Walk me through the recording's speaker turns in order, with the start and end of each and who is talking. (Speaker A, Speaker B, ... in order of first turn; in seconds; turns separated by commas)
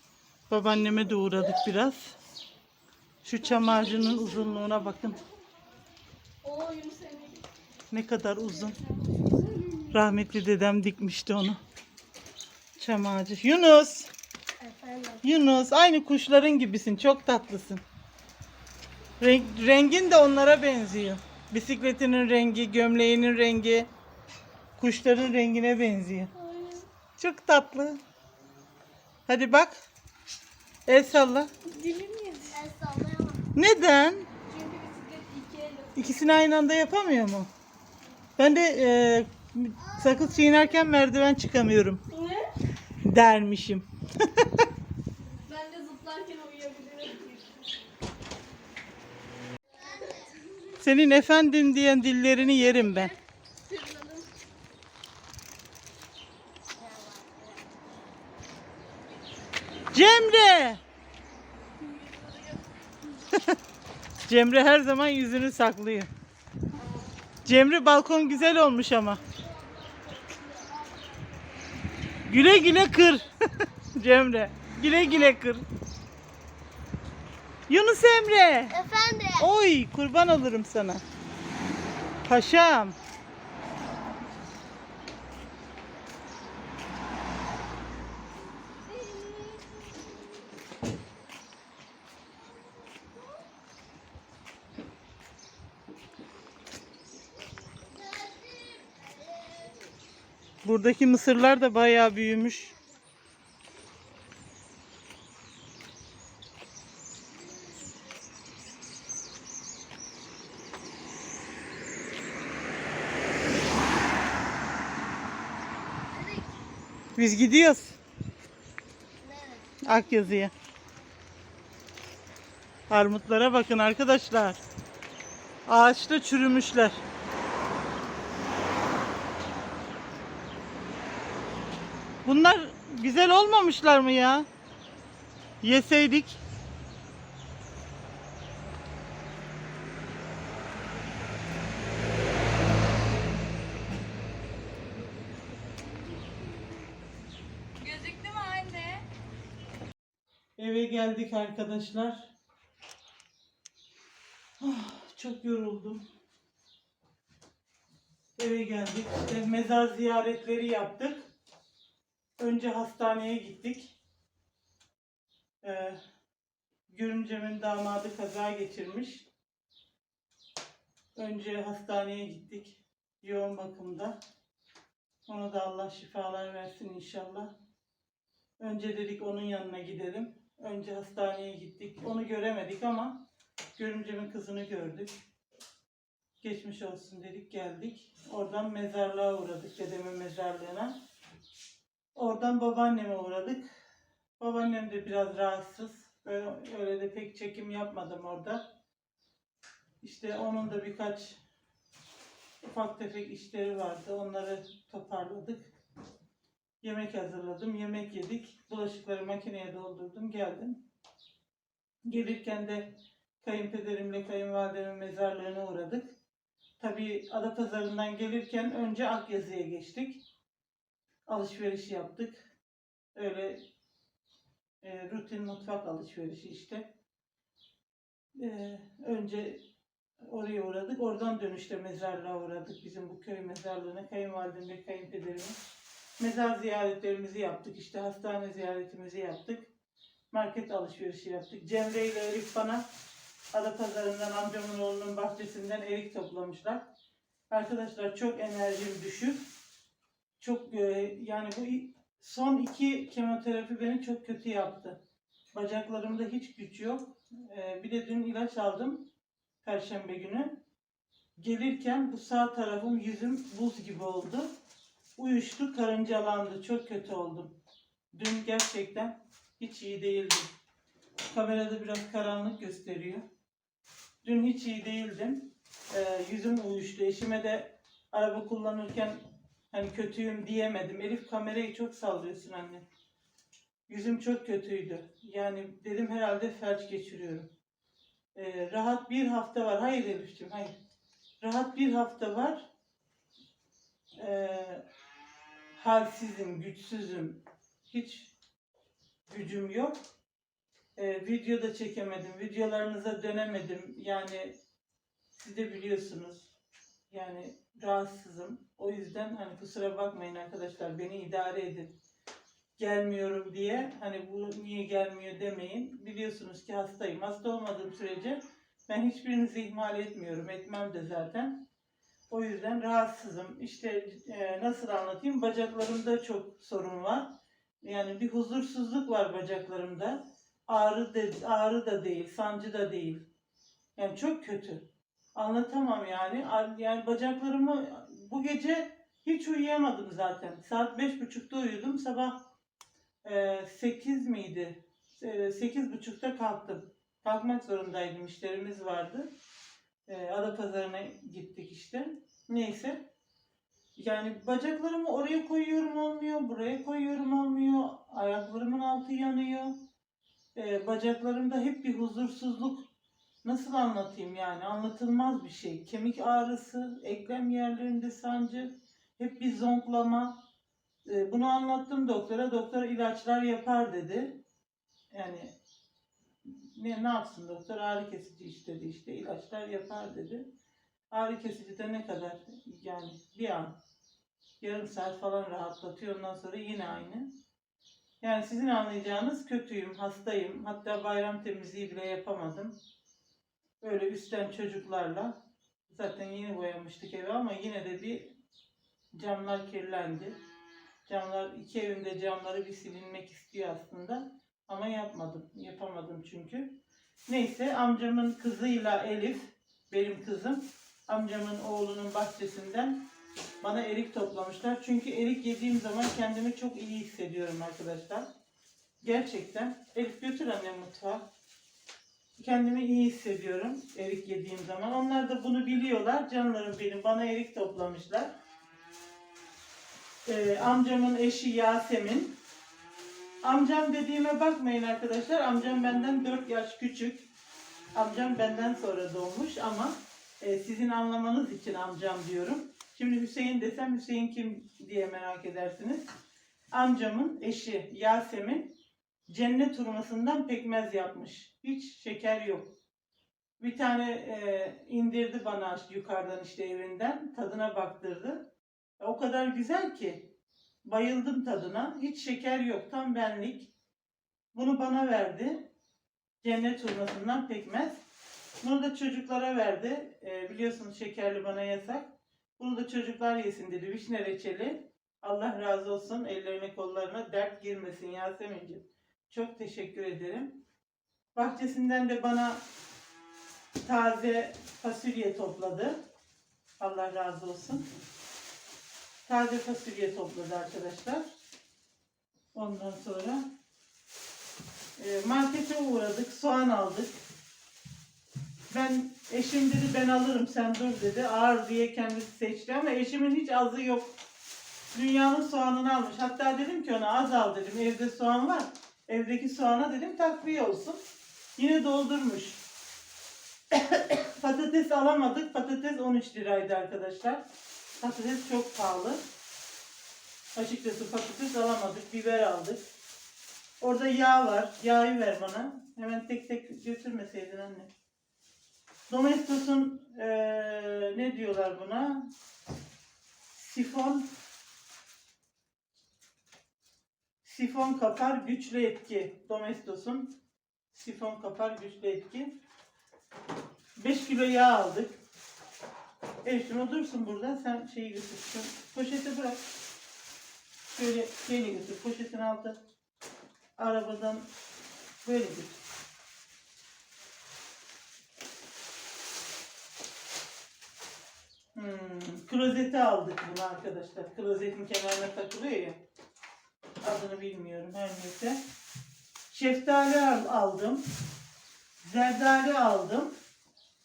Speaker A: 0.5-2.2, Speaker A: 3.2-5.2, Speaker B: 3.4-4.7, Speaker B: 6.4-7.4, Speaker A: 7.9-8.8, Speaker B: 8.7-9.9, Speaker A: 9.9-11.6, Speaker A: 12.8-14.1, Speaker A: 15.2-17.8, Speaker A: 19.2-23.9, Speaker A: 24.8-26.3, Speaker B: 26.4-26.8, Speaker A: 27.2-28.0, Speaker A: 29.3-29.8, Speaker A: 30.9-31.5, Speaker B: 31.7-32.6, Speaker C: 32.5-33.4, Speaker A: 33.5-34.3, Speaker B: 34.5-36.0, Speaker A: 36.0-37.5, Speaker A: 38.4-42.0, Speaker B: 42.1-42.5, Speaker A: 43.0-44.7, Speaker B: 45.5-47.4, Speaker C: 49.8-50.3, Speaker A: 50.8-53.1, Speaker B: 52.5-53.1, Speaker B: 53.7-54.3, Speaker C: 56.8-57.6, Speaker A: 59.9-60.8, Speaker B: 61.8-62.6, Speaker A: 64.3-66.1, Speaker A: 67.5-69.2, Speaker C: 69.3-71.6, Speaker A: 72.3-75.6, Speaker A: 77.7-78.8, Speaker C: 78.7-79.5, Speaker A: 79.4-81.0, Speaker A: 82.3-83.0, Speaker C: 98.3-99.0, Speaker A: 100.6-102.8, Speaker C: 116.2-116.4, Speaker A: 117.2-118.0, Speaker C: 119.2-119.8, Speaker A: 119.8-120.5, Speaker A: 122.9-124.6, Speaker A: 125.7-127.0, Speaker A: 132.2-134.5, Speaker A: 135.6-136.4, Speaker B: 147.8-149.0, Speaker A: 150.6-152.3, Speaker A: 154.6-156.1, Speaker A: 158.4-161.3, Speaker A: 162.4-163.9, Speaker A: 165.6-166.0, Speaker A: 166.9-169.3, Speaker A: 171.2-174.2, Speaker A: 175.3-177.5, Speaker A: 178.6-183.2, Speaker A: 183.8-185.1, Speaker A: 186.4-190.9, Speaker A: 192.2-193.8, Speaker A: 194.4-198.7, Speaker A: 200.0-201.4, Speaker A: 202.6-205.7, Speaker A: 206.8-210.8, Speaker A: 212.0-216.1, Speaker A: 216.8-220.2, Speaker A: 221.3-222.5, Speaker A: 223.2-223.6, Speaker A: 224.8-226.9, Speaker A: 228.4-229.6, Speaker A: 230.2-235.6, Speaker A: 236.2-239.7, Speaker A: 240.3-242.8, Speaker A: 243.5-246.9, Speaker A: 247.5-249.5, Speaker A: 250.4-255.0, Speaker A: 255.5-259.0, Speaker A: 259.6-260.6, Speaker A: 261.4-264.5, Speaker A: 265.2-267.6, Speaker A: 268.1-270.5, Speaker A: 271.3-273.2, Speaker A: 274.2-282.8, Speaker A: 283.9-287.5, Speaker A: 288.4-290.8, Speaker A: 291.4-292.7, Speaker A: 294.2-294.8, Speaker A: 295.8-298.3, Speaker A: 299.3-300.0, Speaker A: 301.0-304.6, Speaker A: 305.4-306.5, Speaker A: 307.1-311.9, Speaker A: 312.8-321.6, Speaker A: 322.3-327.3, Speaker A: 327.8-333.2, Speaker A: 334.0-342.4, Speaker A: 343.2-349.3, Speaker A: 350.1-353.0, Speaker A: 354.0-359.8, Speaker A: 360.6-362.9, Speaker A: 363.4-370.4, Speaker A: 371.1-374.4, Speaker A: 375.1-375.5, Speaker A: 376.4-380.5, Speaker A: 381.1-383.8, Speaker A: 384.6-387.3, Speaker A: 388.2-392.7, Speaker A: 393.8-395.4, Speaker A: 395.9-398.3, Speaker A: 399.1-400.4, Speaker A: 401.1-413.1, Speaker A: 413.6-418.3, Speaker A: 419.0-421.3, Speaker A: 422.4-428.3, Speaker A: 430.3-432.4, Speaker A: 433.4-437.3, Speaker A: 437.9-446.1, Speaker A: 446.7-448.7, Speaker A: 449.3-452.7, Speaker A: 453.6-460.3, Speaker A: 460.8-463.7, Speaker A: 464.5-465.7, Speaker A: 466.4-468.0, Speaker A: 468.6-480.6, Speaker A: 481.4-482.6, Speaker A: 483.8-486.0, Speaker A: 486.8-487.9, Speaker A: 489.3-491.3, Speaker A: 492.5-493.5, Speaker A: 495.0-497.1, Speaker A: 498.7-504.1, Speaker A: 504.9-511.0, Speaker A: 511.6-512.6, Speaker A: 513.7-517.4, Speaker A: 518.0-519.2, Speaker A: 520.5-522.9, Speaker A: 523.8-527.9, Speaker A: 529.1-532.3, Speaker A: 533.5-534.3, Speaker A: 537.4-540.4, Speaker A: 540.9-542.5, Speaker A: 544.0-545.2, Speaker A: 546.4-549.6, Speaker A: 550.9-552.8, Speaker A: 553.8-554.5, Speaker A: 555.2-555.8, Speaker A: 561.8-566.0, Speaker A: 567.0-568.6, Speaker A: 569.5-571.0, Speaker A: 572.0-573.3